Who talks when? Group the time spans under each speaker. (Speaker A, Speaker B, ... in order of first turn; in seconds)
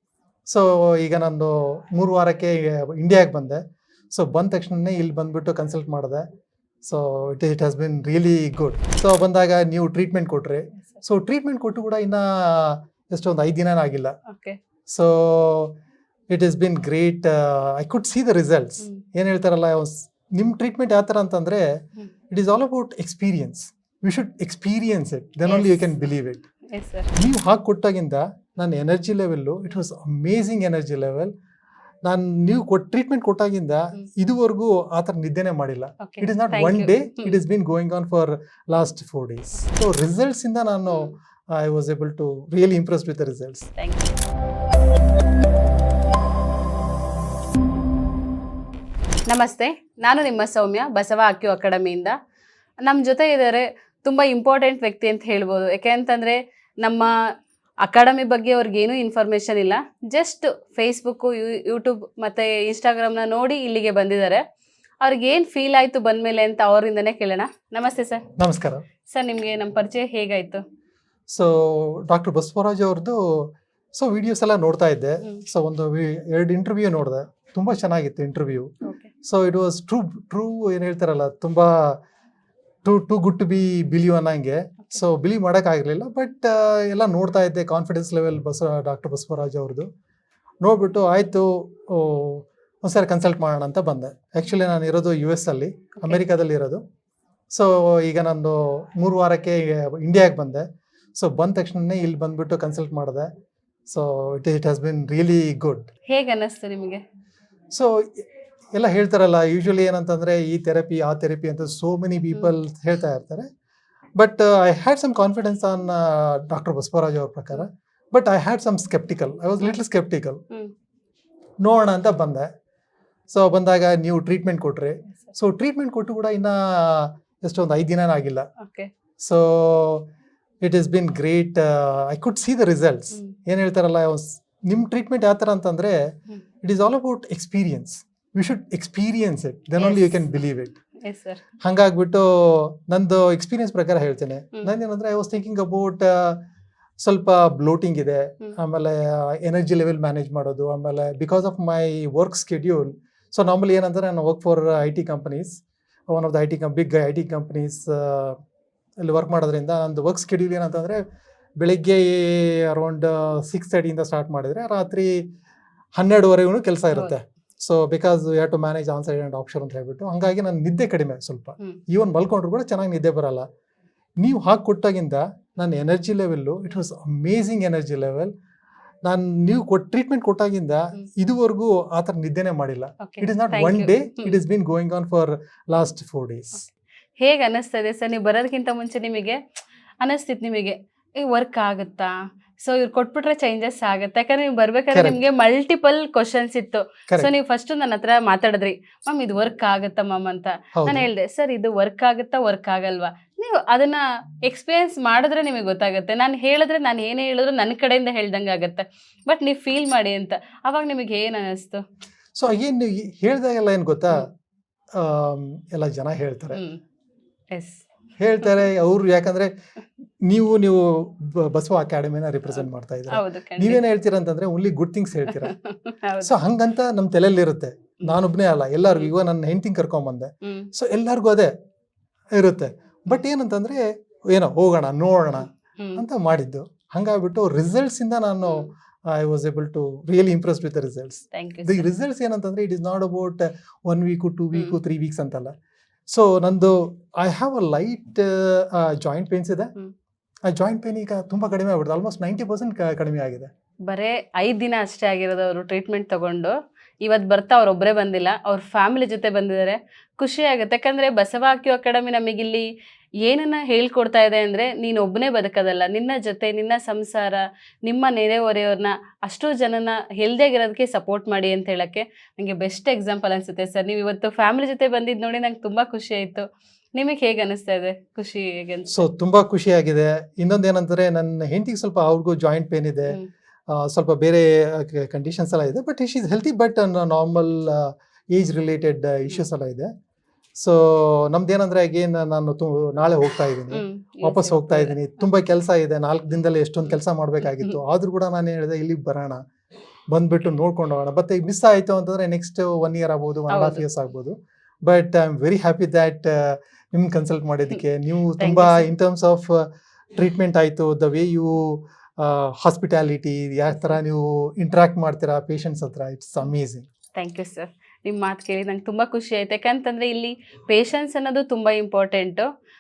Speaker A: 0.5-6.3, 6.8-14.2, 14.9-15.8, 16.3-21.6, 22.3-26.5, 27.2-31.3, 32.0-43.7, 68.4-68.8, 71.3-78.7, 79.2-82.0, 82.8-89.9, 90.6-96.8, 97.5-103.3, 103.9-105.9, 107.7-113.5, 114.2-120.4, 121.6-122.5, 123.3-128.5, 129.2-130.1, 130.6-136.1, 136.6-140.8, 141.6-146.4, 147.0-158.4, 159.0-161.0, 161.6-165.3, 166.0-173.5, 174.2-178.3, 179.1-186.7, 194.9-195.2, 200.8-201.1, 212.4-214.3, 214.9-216.6, 218.2-219.5, 220.2-225.6, 226.2-231.5, 232.3-245.5, 246.1-249.7, 250.5-253.5, 278.9-283.2, 283.7-289.9, 290.6-299.4, 300.1-316.9
Speaker B: 14.3-14.6, 25.4-26.0, 26.7-27.1, 36.0-37.4, 43.8-44.1, 49.3-52.1, 52.8-57.1, 57.8-64.4, 65.0-68.2, 69.1-70.6, 78.8-79.1, 106.1-107.0, 128.6-128.9, 139.8-140.4, 141.0-141.4, 183.0-184.4, 187.2-189.4, 190.0-211.8, 216.5-216.8, 217.5-217.8, 222.5-223.8, 225.2-226.3, 230.4-230.7, 241.3-241.9, 244.5-244.8, 253.9-262.7, 263.2-279.1, 293.7-295.0, 297.4-297.8, 303.5-303.8, 308.4-308.9, 317.2-322.5